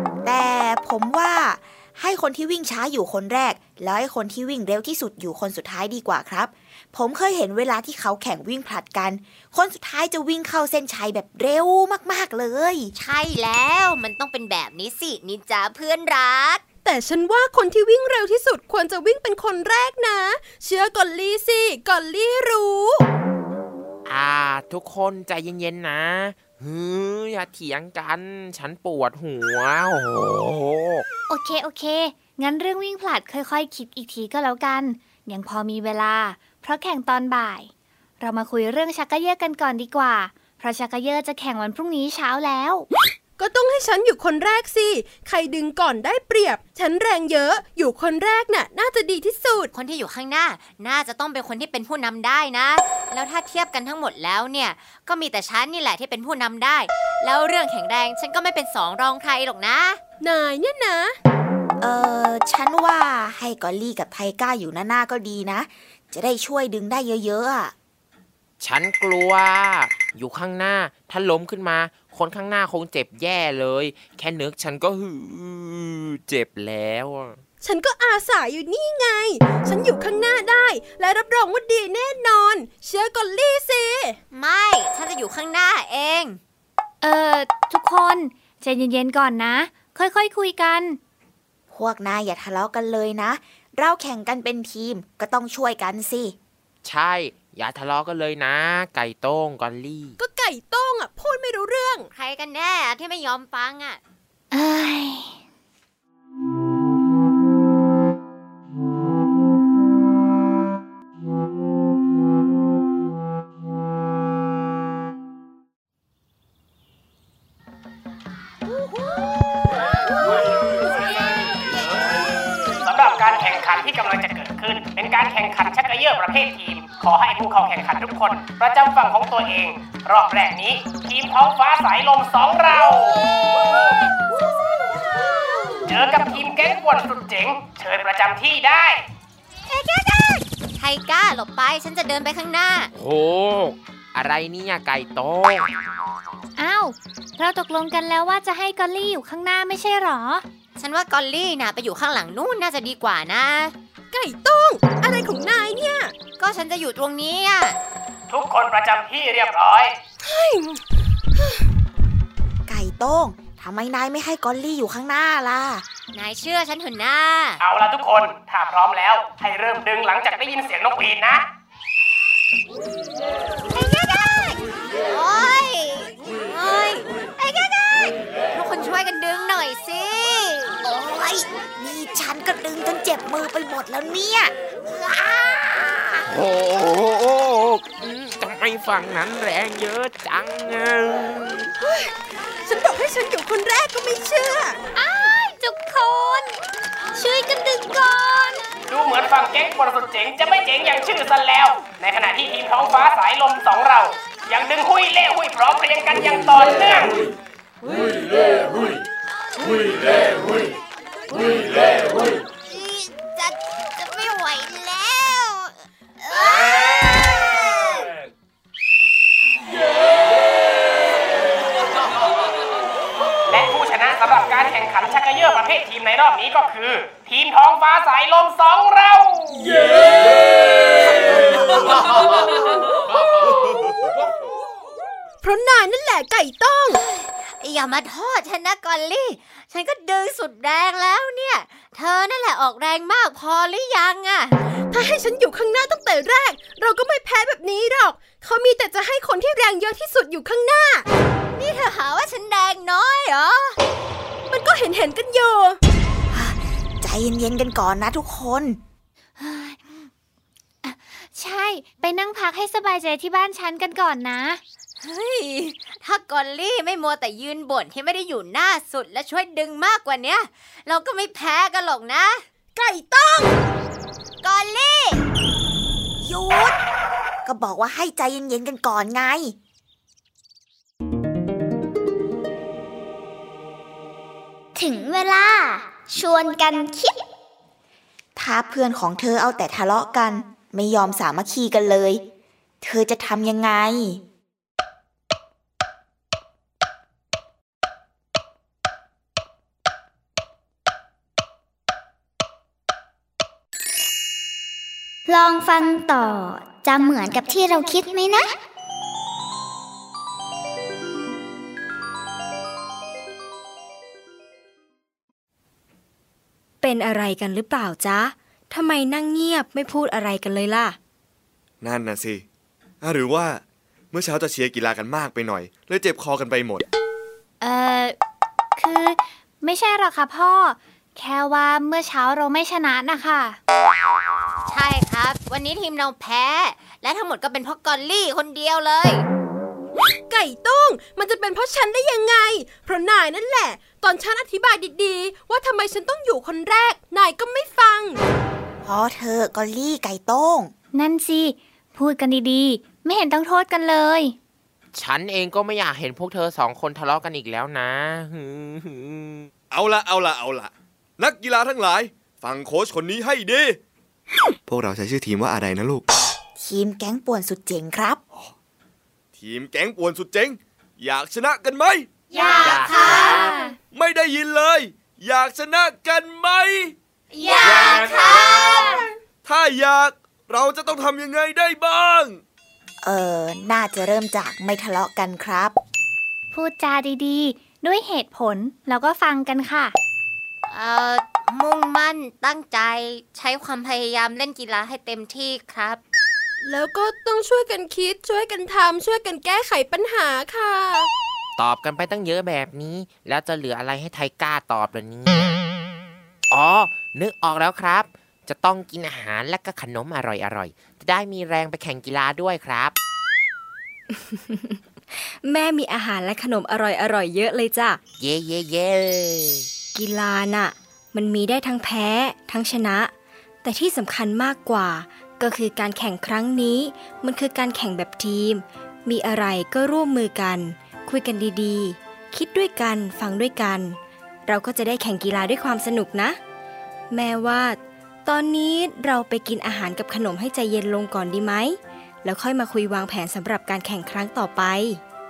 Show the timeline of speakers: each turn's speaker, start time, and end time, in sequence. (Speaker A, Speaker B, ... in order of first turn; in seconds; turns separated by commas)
Speaker A: 0.2-12.9, Speaker B: 12.9-16.6, Speaker C: 16.9-23.1, Speaker D: 24.1-31.1, Speaker E: 31.3-42.9, Speaker C: 43.4-49.7, Speaker B: 49.7-60.0, Speaker C: 60.2-61.1, Speaker A: 61.8-67.7, Speaker D: 68.6-77.4, Speaker C: 77.6-84.2, Speaker B: 84.3-86.4, Speaker E: 87.0-91.0, Speaker A: 91.7-96.4, Speaker D: 96.8-100.2, Speaker C: 100.2-102.1, Speaker B: 102.1-104.0, Speaker E: 104.5-105.4, Speaker F: 122.8-133.2, Speaker F: 135.9-139.0, Speaker B: 139.7-142.9, Speaker D: 142.9-145.7, Speaker E: 146.6-150.4, Speaker B: 150.8-153.7, Speaker C: 154.1-156.1, Speaker B: 156.4-157.8, Speaker F: 158.3-159.9, Speaker C: 160.2-160.8, Speaker A: 162.7-165.9, Speaker B: 166.1-167.6, Speaker F: 167.6-171.4, Speaker B: 173.7-180.8, Speaker A: 180.8-186.2, Speaker D: 186.3-191.7, Speaker C: 191.8-194.8, Speaker E: 195.0-196.6, Speaker E: 197.1-198.6, Speaker F: 198.9-207.1, Speaker B: 211.4-218.1, Speaker F: 223.5-229.7, Speaker C: 235.4-237.0, Speaker B: 237.1-244.6, Speaker C: 244.9-251.1, Speaker B: 251.6-253.8, Speaker C: 254.5-255.8, Speaker A: 256.3-258.8, Speaker E: 259.4-260.1, Speaker E: 260.8-264.6, Speaker B: 265.0-272.4, Speaker C: 272.8-273.6, Speaker B: 274.4-275.2, Speaker A: 276.2-276.8, Speaker A: 277.5-279.6, Speaker G: 284.8-287.2, Speaker A: 288.4-292.2, Speaker A: 292.8-294.2, Speaker G: 305.3-308.6, Speaker H: 316.8-321.0, Speaker I: 321.8-322.4, Speaker I: 323.0-326.9, Speaker E: 327.6-328.2, Speaker E: 328.8-333.6, Speaker B: 334.7-339.2, Speaker C: 340.3-348.2, Speaker A: 348.8-350.7, Speaker E: 350.9-354.4, Speaker D: 354.9-359.5, Speaker I: 359.7-363.8, Speaker I: 364.7-366.1, Speaker A: 366.6-368.2, Speaker I: 369.4-372.1, Speaker B: 372.3-373.4, Speaker D: 372.6-373.6, Speaker E: 373.3-373.7, Speaker I: 373.9-376.9, Speaker B: 377.3-379.0, Speaker I: 379.4-382.4, Speaker A: 383.0-385.8, Speaker E: 386.5-390.0, Speaker B: 390.7-396.0, Speaker C: 396.6-401.1, Speaker D: 401.6-405.5, Speaker D: 406.5-412.9, Speaker H: 414.3-418.0, Speaker D: 418.2-419.7, Speaker H: 419.9-423.1, Speaker H: 423.6-436.4, Speaker H: 437.1-445.0